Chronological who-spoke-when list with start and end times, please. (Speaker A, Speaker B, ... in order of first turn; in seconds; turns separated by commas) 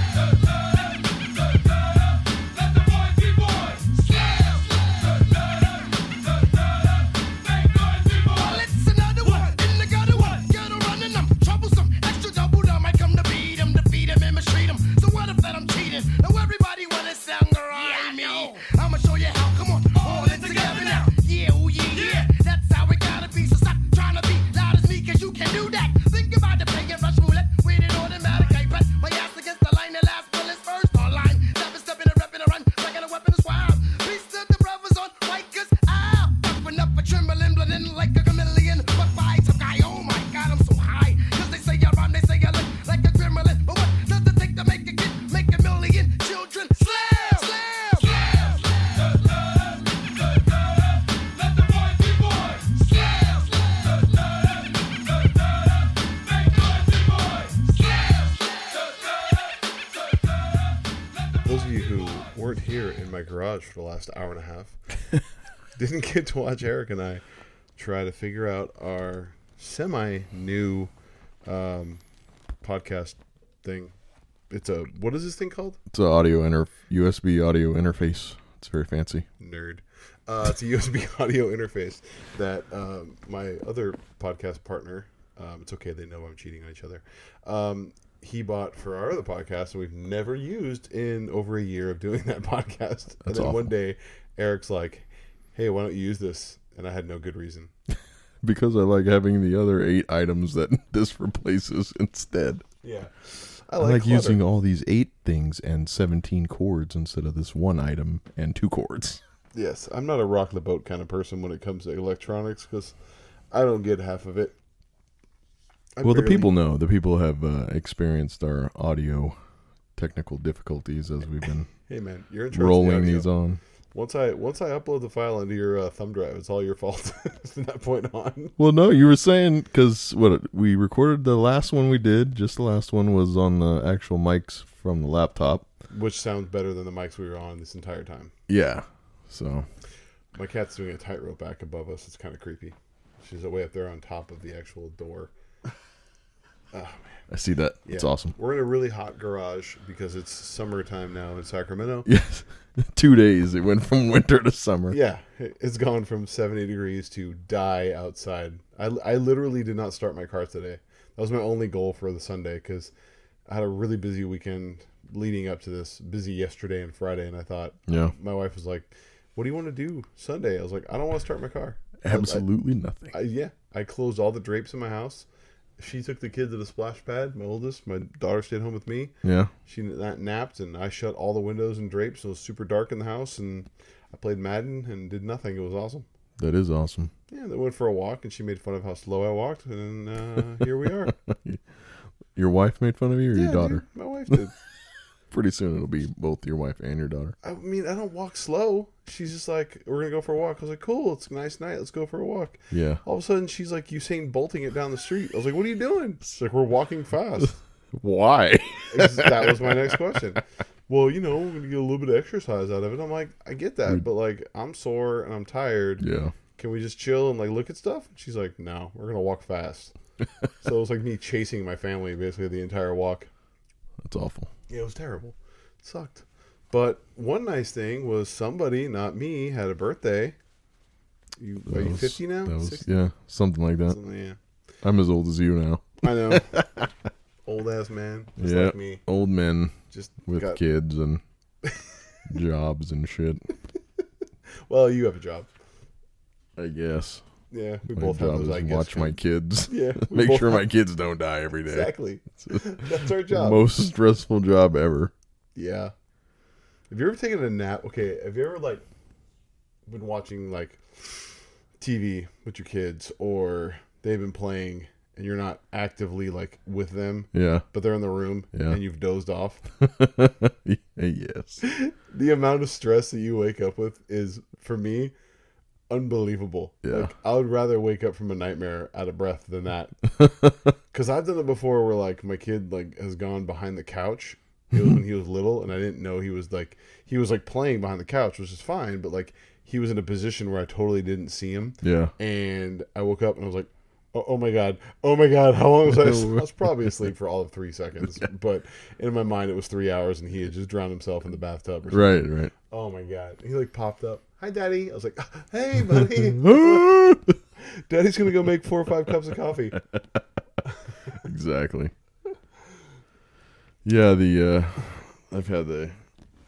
Speaker A: 7.6-48.6, Speaker B: 61.5-64.8, Speaker B: 65.8-67.2, Speaker B: 67.8-70.9, Speaker B: 71.5-72.0, Speaker B: 72.6-73.9, Speaker B: 74.5-75.8, Speaker C: 75.9-79.2, Speaker B: 79.4-97.7, Speaker C: 93.2-93.7, Speaker C: 98.4-102.6, Speaker B: 102.8-104.4, Speaker C: 103.8-109.2, Speaker B: 109.5-112.9, Speaker B: 113.5-114.5, Speaker B: 116.0-116.5, Speaker C: 116.0-119.4, Speaker C: 120.0-121.7, Speaker B: 121.9-123.3, Speaker C: 122.5-123.6, Speaker B: 123.9-128.5, Speaker C: 128.6-135.7, Speaker B: 135.9-138.3, Speaker C: 138.5-139.7, Speaker B: 140.3-145.3, Speaker B: 146.7-147.2, Speaker C: 147.3-148.4, Speaker B: 147.8-152.1, Speaker C: 152.1-155.0, Speaker B: 154.9-162.9, Speaker B: 163.5-172.4, Speaker C: 167.9-168.1, Speaker C: 172.0-173.2, Speaker B: 173.1-175.2, Speaker B: 175.8-179.1, Speaker C: 179.2-179.5, Speaker B: 179.7-186.1, Speaker C: 186.4-187.1, Speaker B: 187.3-191.1, Speaker C: 191.2-191.6, Speaker C: 192.3-193.8, Speaker B: 193.3-194.5, Speaker C: 195.3-197.4, Speaker B: 197.4-207.6, Speaker C: 202.7-203.0, Speaker C: 207.9-210.2, Speaker B: 208.9-216.1, Speaker C: 216.0-216.3, Speaker B: 216.6-219.9, Speaker B: 220.6-223.3, Speaker C: 224.0-224.5, Speaker B: 224.7-230.4, Speaker B: 231.4-232.9, Speaker C: 231.7-234.0, Speaker B: 233.9-234.4, Speaker C: 234.8-236.9, Speaker B: 236.0-236.6, Speaker B: 237.5-239.0, Speaker C: 238.4-241.2, Speaker B: 239.9-240.6, Speaker C: 242.3-243.4, Speaker B: 244.7-245.5, Speaker C: 246.6-247.2, Speaker B: 247.5-249.2, Speaker C: 247.9-255.1, Speaker B: 249.7-250.7, Speaker B: 251.7-253.6, Speaker B: 255.6-255.9, Speaker B: 256.9-258.8, Speaker B: 259.9-261.0, Speaker B: 261.8-269.6, Speaker C: 267.3-267.7, Speaker C: 268.5-268.8, Speaker C: 269.8-271.6, Speaker B: 271.6-275.1, Speaker B: 275.9-279.9, Speaker C: 276.8-277.1, Speaker C: 280.2-280.7, Speaker B: 280.9-306.9, Speaker C: 291.8-292.1, Speaker C: 295.9-297.0, Speaker C: 298.0-298.3, Speaker C: 301.9-302.5, Speaker C: 305.9-307.4, Speaker B: 307.9-309.8, Speaker C: 309.9-310.2, Speaker C: 311.2-311.9, Speaker C: 313.8-316.0